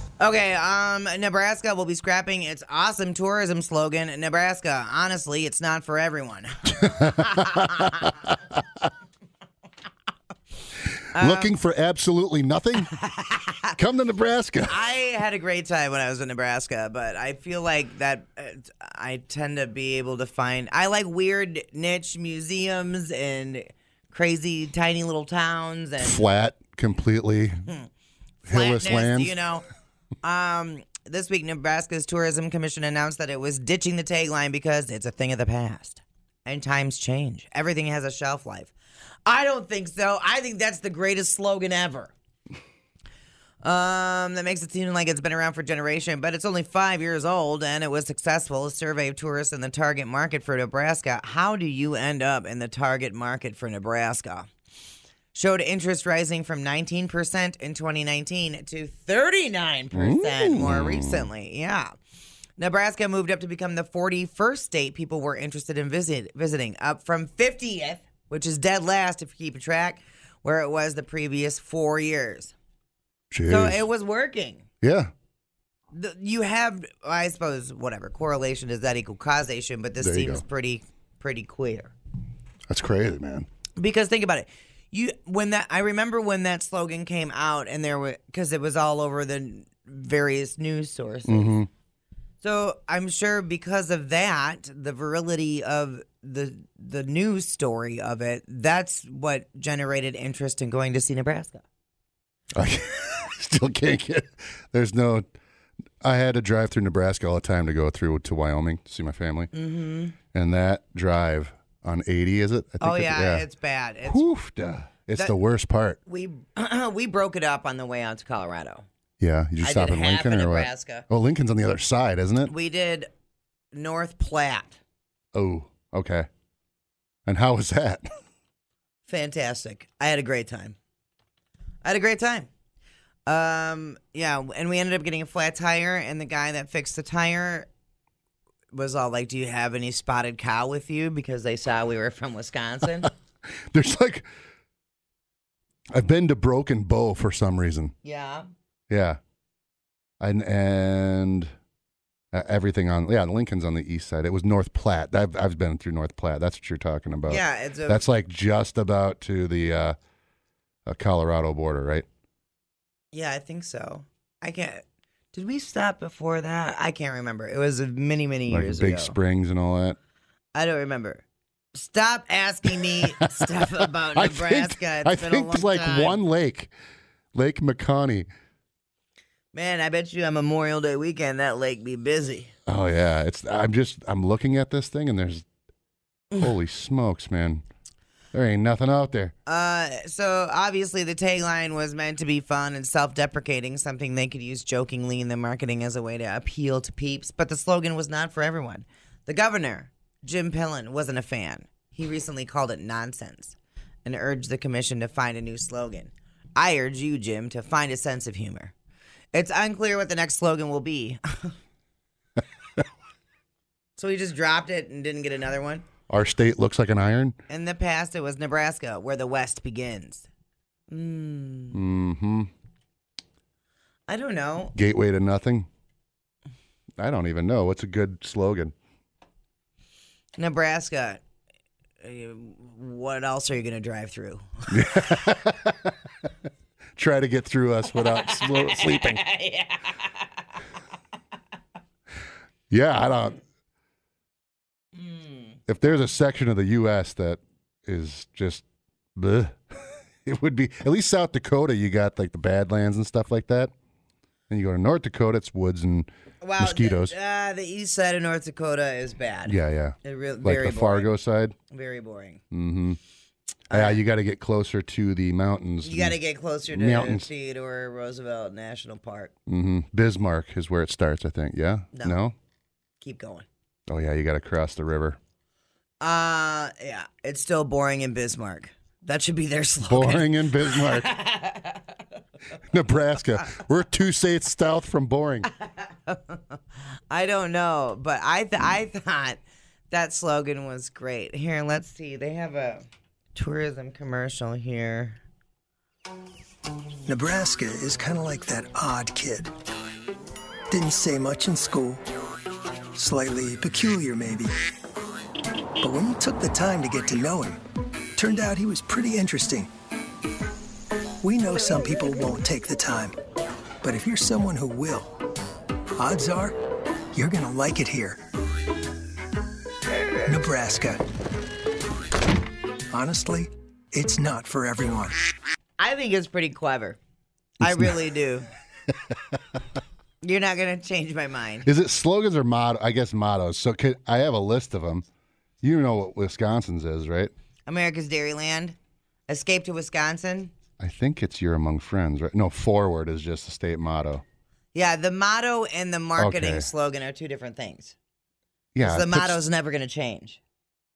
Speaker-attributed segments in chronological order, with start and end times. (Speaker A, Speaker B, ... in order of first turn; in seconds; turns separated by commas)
Speaker A: 0.2-8.1, Speaker B: 6.8-8.1, Speaker A: 11.1-11.5, Speaker B: 11.2-12.9, Speaker A: 13.0-13.6, Speaker B: 13.7-14.8, Speaker A: 14.7-26.2, Speaker B: 26.0-27.6, Speaker A: 28.4-29.6, Speaker B: 28.4-29.3, Speaker A: 30.2-38.7, Speaker A: 39.2-42.1, Speaker A: 43.6-54.5, Speaker A: 55.3-61.9, Speaker B: 59.9-61.3, Speaker A: 62.6-72.5, Speaker B: 73.3-73.8, Speaker A: 73.5-74.6, Speaker B: 74.8-75.1, Speaker A: 75.9-81.9, Speaker B: 80.0-80.4, Speaker B: 82.7-83.5, Speaker A: 83.8-91.5, Speaker B: 91.2-91.7, Speaker A: 92.4-101.6, Speaker B: 102.5-105.2, Speaker B: 106.0-109.5, Speaker A: 109.5-110.1, Speaker B: 110.3-113.5, Speaker A: 112.8-114.2, Speaker B: 114.1-116.0, Speaker A: 116.0-118.8, Speaker B: 119.2-122.5, Speaker A: 119.6-121.0, Speaker A: 122.5-123.1, Speaker A: 123.7-124.8, Speaker B: 125.3-126.3, Speaker B: 127.2-128.1, Speaker A: 129.1-130.8, Speaker A: 131.8-132.5, Speaker A: 133.2-137.7, Speaker A: 138.7-143.1, Speaker B: 143.7-144.3, Speaker B: 145.9-147.9, Speaker A: 148.0-148.5, Speaker B: 148.9-149.2, Speaker B: 150.2-151.5, Speaker B: 152.3-159.9, Speaker A: 157.3-158.0, Speaker B: 160.8-162.1, Speaker A: 163.1-169.2, Speaker B: 168.5-170.0, Speaker A: 170.5-176.2, Speaker B: 173.1-176.7, Speaker B: 177.3-178.3, Speaker A: 179.5-182.5, Speaker B: 182.7-185.4, Speaker B: 186.3-187.6, Speaker B: 188.3-189.3, Speaker A: 189.4-208.7, Speaker A: 209.3-211.6, Speaker A: 214.0-215.9, Speaker B: 216.1-217.3, Speaker A: 217.5-220.3, Speaker A: 220.9-221.8, Speaker B: 221.7-222.5, Speaker A: 224.1-224.7, Speaker B: 224.7-225.7, Speaker B: 227.0-228.7, Speaker A: 230.4-231.2, Speaker A: 232.0-235.2, Speaker B: 234.7-235.9, Speaker B: 236.9-239.2, Speaker A: 237.9-240.3, Speaker B: 242.7-243.4, Speaker A: 245.0-245.4, Speaker B: 245.7-248.6, Speaker B: 249.2-253.7, Speaker B: 254.5-257.1, Speaker A: 256.4-261.1, Speaker B: 259.5-261.5, Speaker A: 261.7-262.4, Speaker B: 262.5-263.0, Speaker A: 263.7-264.0, Speaker B: 263.7-266.2, Speaker A: 265.8-269.3, Speaker B: 266.7-267.3, Speaker B: 269.5-272.3, Speaker A: 273.0-273.4, Speaker B: 273.9-275.2, Speaker A: 276.0-281.9, Speaker B: 279.9-281.1, Speaker B: 282.7-285.5, Speaker A: 285.6-286.6, Speaker A: 287.1-295.2, Speaker C: 297.1-299.5, Speaker C: 300.7-302.0, Speaker C: 302.9-304.5, Speaker C: 305.8-307.6, Speaker C: 308.1-309.7, Speaker C: 311.2-313.1, Speaker C: 313.8-315.1, Speaker C: 315.9-316.6, Speaker C: 317.1-318.2, Speaker C: 320.3-321.0, Speaker C: 322.9-325.2, Speaker A: 325.8-327.0, Speaker B: 327.6-327.9, Speaker A: 327.6-328.5, Speaker A: 330.2-331.7, Speaker B: 331.6-335.1, Speaker B: 335.6-337.3, Speaker A: 337.7-338.8, Speaker A: 339.3-340.5, Speaker B: 340.8-344.2, Speaker A: 344.7-347.9, Speaker B: 346.2-346.7, Speaker B: 348.7-349.4, Speaker A: 348.8-350.4